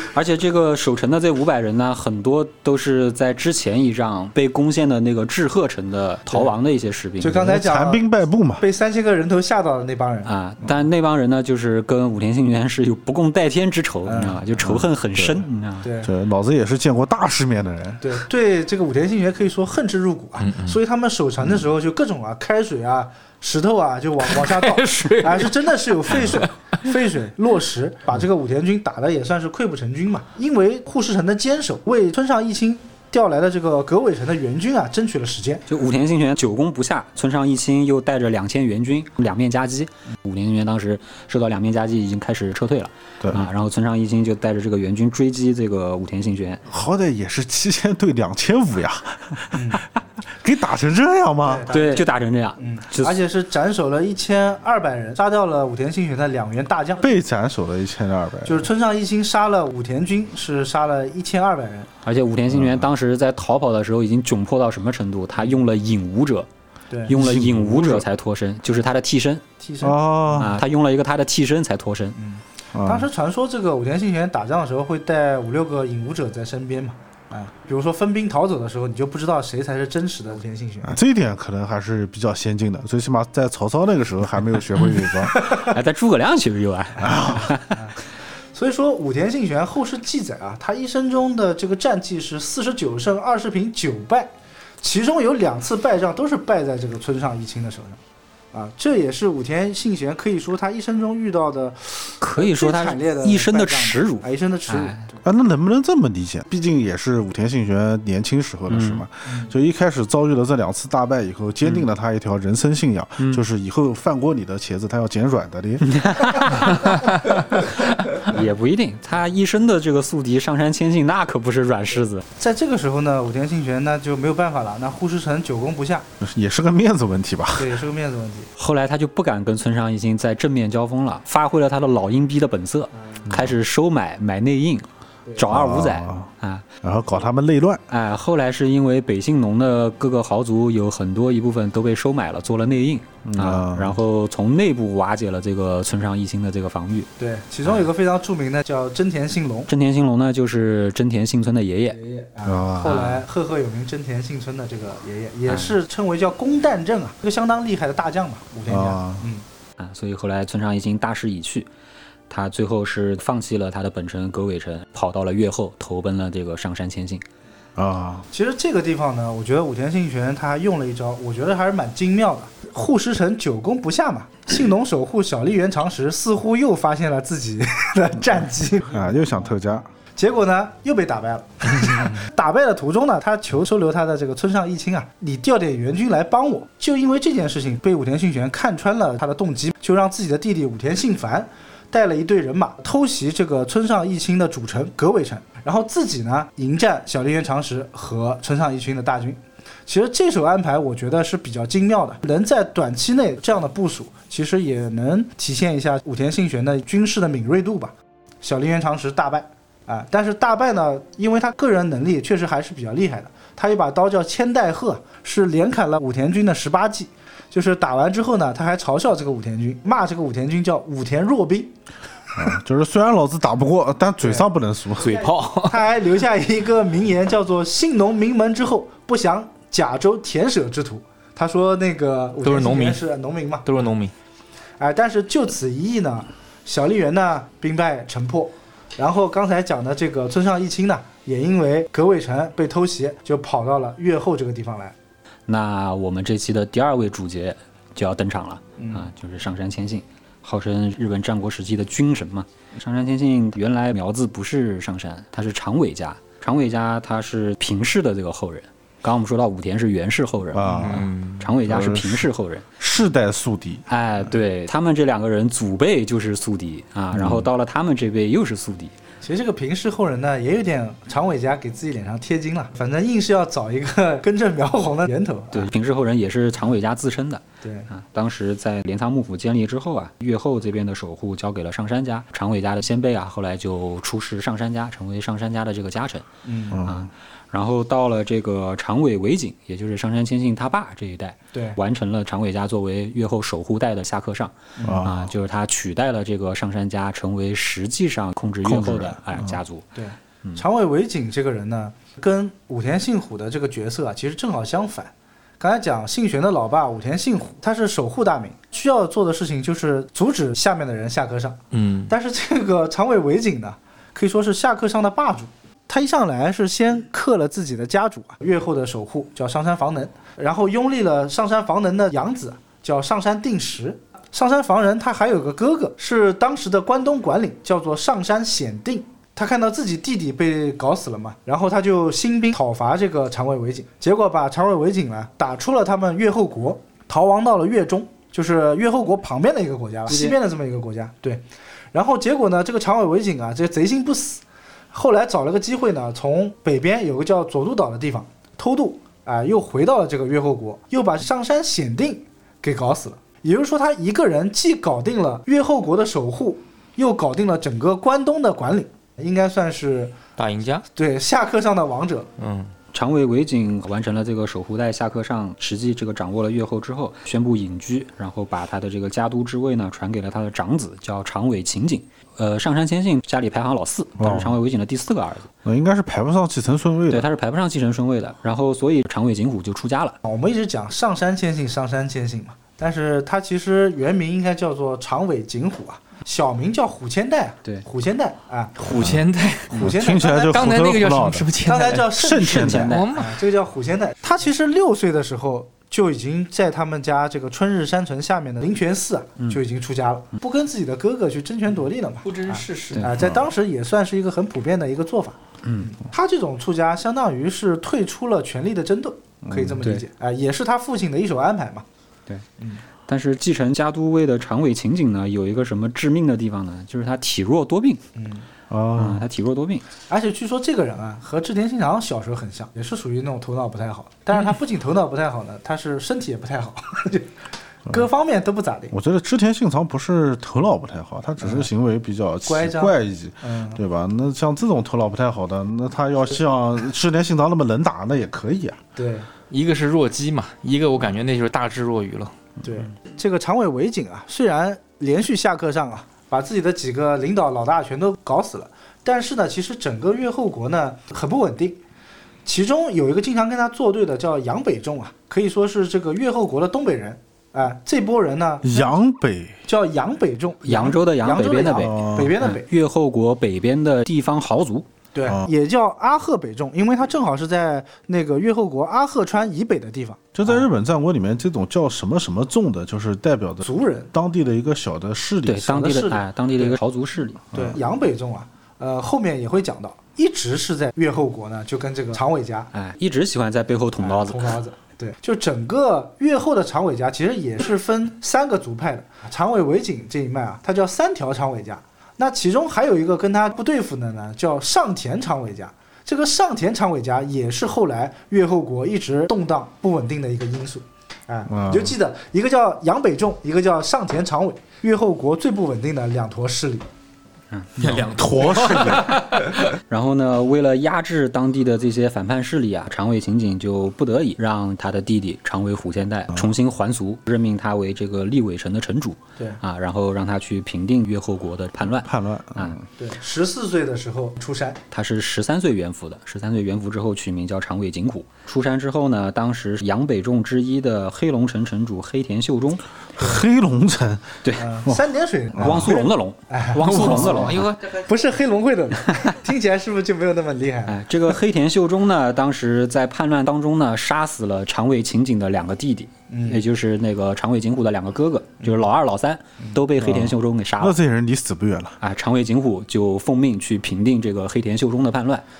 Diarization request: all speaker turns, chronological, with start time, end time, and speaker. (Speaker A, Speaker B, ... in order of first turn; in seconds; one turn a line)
Speaker A: 0.1-7.5
Speaker B: 7.2-8.0
Speaker C: 7.3-8.6
Speaker B: 8.6-10.3
Speaker A: 10.2-15.9
Speaker B: 14.1-14.4
Speaker C: 14.7-15.4
Speaker B: 15.8-16.1
Speaker C: 16.0-18.2
Speaker B: 18.0-35.6
Speaker D: 20.4-20.8
Speaker D: 24.3-25.5
Speaker D: 26.2-26.4
Speaker A: 35.7-46.6
Speaker C: 46.7-51.7
Speaker B: 49.5-49.8
Speaker B: 51.4-57.0
Speaker A: 51.7-53.2
Speaker C: 57.0-58.7
Speaker B: 58.4-61.9
Speaker A: 62.0-66.5
Speaker C: 62.5-62.8
Speaker B: 66.9-67.2
Speaker A: 67.1-69.4
Speaker C: 67.1-68.0
Speaker B: 69.6-70.0
Speaker C: 69.8-70.6
Speaker A: 70.3-72.2
Speaker B: 72.2-81.0
Speaker C: 72.7-73.1
Speaker C: 80.8-85.4
Speaker B: 85.4-85.7
Speaker A: 85.4-87.8
Speaker C: 87.0-87.5
Speaker B: 88.5-98.0
Speaker B: 98.5-105.2
Speaker A: 102.2-105.0
Speaker C: 105.2-116.4
Speaker A: 108.7-109.0
Speaker B: 109.3-109.5
Speaker A: 115.8-117.1
Speaker A: 118.0-122.2
Speaker B: 122.4-126.1
Speaker C: 126.2-127.8
Speaker B: 127.5-128.5
Speaker A: 128.6-136.6
Speaker C: 135.5-136.3
Speaker C: 136.8-137.8
Speaker A: 137.9-147.1
Speaker C: 143.2-144.0
Speaker B: 147.2-149.7
Speaker A: 149.7-152.0
Speaker B: 152.0-159.4
Speaker C: 152.4-153.1
Speaker A: 152.8-153.2
Speaker A: 155.5-155.7
Speaker C: 158.7-159.3
Speaker A: 159.8-161.7
Speaker A: 162.3-167.2
Speaker C: 167.8-168.3
Speaker B: 168.3-179.4
Speaker C: 178.9-179.9
Speaker B: 180.1-221.7
Speaker C: 222.3-225.3
Speaker B: 224.2-224.5
Speaker D: 225.0-225.8
Speaker B: 225.6-233.7
Speaker D: 232.4-233.0
Speaker D: 233.6-234.1
Speaker B: 234.8-244.9
Speaker A: 245.5-262.6
Speaker B: 248.8-249.1
Speaker C: 260.5-261.1
Speaker D: 260.7-261.4
Speaker C: 261.6-262.3
Speaker C: 262.8-263.8
Speaker A: 263.9-268.9
Speaker C: 267.1-267.4
Speaker B: 269.2-275.7
Speaker A: 275.5-286.3
Speaker B: 277.6-277.9
Speaker B: 286.4-286.8
Speaker C: 286.7-287.1
Speaker A: 286.8-299.9
Speaker B: 291.5-291.8
Speaker B: 294.8-295.1
Speaker C: 294.8-295.3
Speaker C: 298.6-299.6
Speaker B: 299.9-360.1
Speaker D: 311.7-312.1
Speaker D: 340.1-340.3
Speaker D: 360.4-360.8
Speaker B: 360.9-362.3
Speaker D: 362.4-362.7
Speaker A: 362.9-375.5
Speaker C: 374.2-374.6
Speaker C: 375.6-377.3
Speaker A: 377.1-380.2
Speaker B: 380.2-388.8
Speaker D: 388.8-392.2
Speaker C: 388.9-391.5
Speaker B: 389.7-390.6
Speaker B: 391.6-411.9
Speaker C: 392.1-393.0
Speaker A: 392.3-393.1
Speaker D: 392.9-393.4
Speaker D: 402.2-403.2
Speaker C: 403.2-403.4
Speaker C: 409.4-410.0
Speaker A: 413.1-418.0
Speaker B: 418.1-418.4
Speaker C: 418.7-419.2
Speaker A: 418.9-419.8
Speaker B: 420.1-427.3
Speaker B: 427.9-428.9
Speaker C: 428.9-438.8
Speaker B: 431.4-431.7
Speaker B: 432.4-433.8
Speaker B: 438.9-439.3
Speaker D: 439.5-442.3
Speaker B: 442.6-451.8
Speaker B: 452.4-458.9
Speaker C: 458.6-459.6
Speaker B: 459.7-462.7
Speaker A: 460.6-464.9
Speaker C: 461.8-462.3
Speaker B: 465.1-470.6
Speaker C: 470.3-475.9
Speaker B: 473.6-474.1
Speaker A: 475.4-477.4
Speaker B: 475.6-476.8
Speaker C: 477.5-477.8
Speaker B: 477.5-482.7
Speaker A: 482.7-484.6
Speaker B: 484.0-506.9
Speaker C: 501.5-501.9
Speaker A: 507.5-508.1
Speaker D: 507.8-509.6
Speaker C: 508.1-509.2
Speaker A: 509.5-522.8
Speaker C: 522.0-522.8
Speaker B: 523.0-524.8
Speaker A: 524.9-532.8
Speaker C: 533.2-535.0
Speaker B: 534.6-541.0
Speaker C: 535.5-535.9
Speaker A: 535.6-537.7
Speaker D: 536.8-537.9
Speaker A: 540.9-551.0
Speaker B: 546.3-546.6
Speaker C: 550.0-552.0
Speaker A: 552.0-555.4